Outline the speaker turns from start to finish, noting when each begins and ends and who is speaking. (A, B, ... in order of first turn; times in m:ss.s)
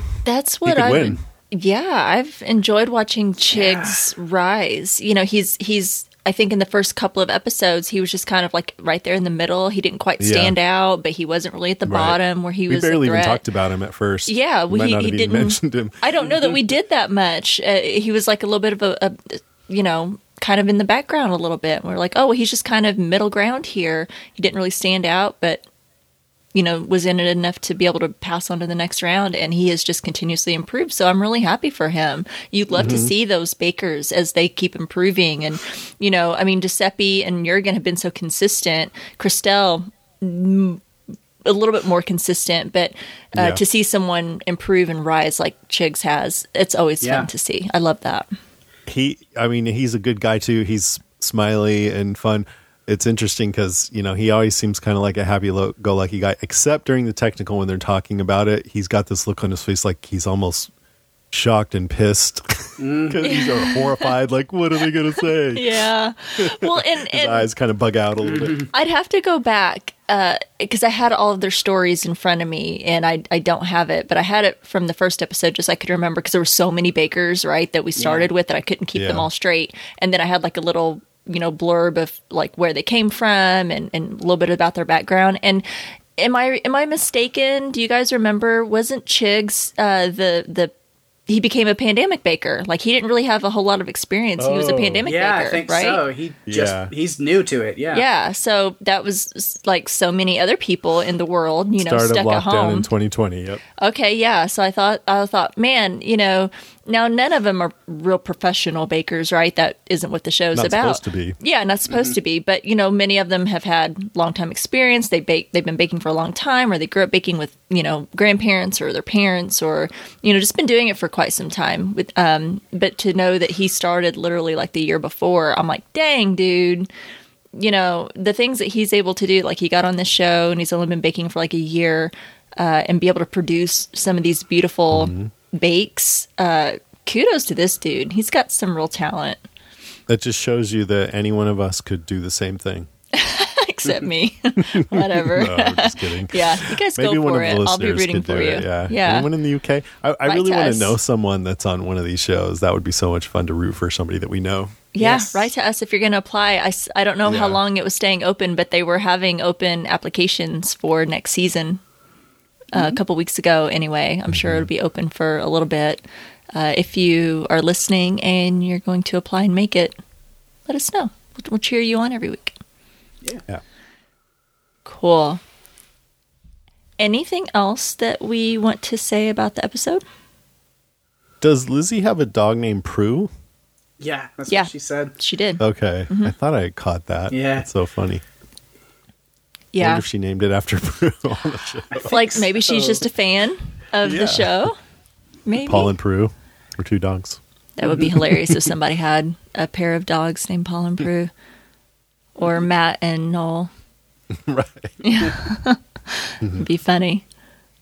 0:00.2-0:13.4 A
0:00.6-0:01.2 B
0:03.5-0:04.1 C
0:10.2-0:10.6 B
0:11.8-0:16.0 B
0:14.3-0:25.6 A
0:26.5-0:40.8 A
0:32.7-0:33.0 C
0:32.8-0:33.1 B
0:41.4-0:48.3 A
0:43.3-0:43.6 B
0:47.0-0:47.3 C
0:48.9-1:00.7 B
1:01.3-1:05.8 B
1:02.8-1:03.2 C
1:03.2-1:04.1 A
1:05.5-1:07.5 A
1:06.4-1:08.6 B
1:08.2-1:08.6 C
1:08.7-1:30.7 A
1:18.0-1:18.3 C
1:19.0-1:19.3 B
1:31.3-1:36.0 A
1:34.4-1:35.0 B
1:35.0-1:38.0 C
1:36.5-1:36.9 B
1:37.9-1:42.9 A
1:41.8-1:43.6 B
1:43.8-2:06.9 A
1:50.5-1:51.4 B
1:51.9-1:52.2 C
2:07.5-2:19.4 A
2:14.9-2:15.3 B
2:20.1-2:22.9 B
2:23.1-2:29.3 A
2:24.6-2:34.8 B
2:30.2-2:31.0 A
2:34.9-2:41.8 A
2:35.0-2:35.5 C
2:37.2-2:37.6 B
2:42.7-2:50.0 A
2:42.7-2:43.0 C
2:44.3-2:44.6 B
2:50.7-2:52.6 A
2:54.8-2:55.4 A
2:57.0-3:00.0 A
3:01.4-3:03.3 B
3:04.0-3:05.1 C
3:04.5-3:06.3 A
3:05.6-3:08.2 B
3:07.3-3:07.7 C
3:09.7-3:10.0 A
3:09.8-3:12.1 B
3:11.9-3:13.0 C
3:12.0-3:14.8 A
3:14.0-3:14.6 B
3:15.4-3:15.9 A
3:15.6-3:17.4 B
3:17.8-3:21.3 A
3:18.0-3:18.5 B
3:22.4-3:23.7 A
3:24.3-3:25.0 B
3:25.0-3:27.2 A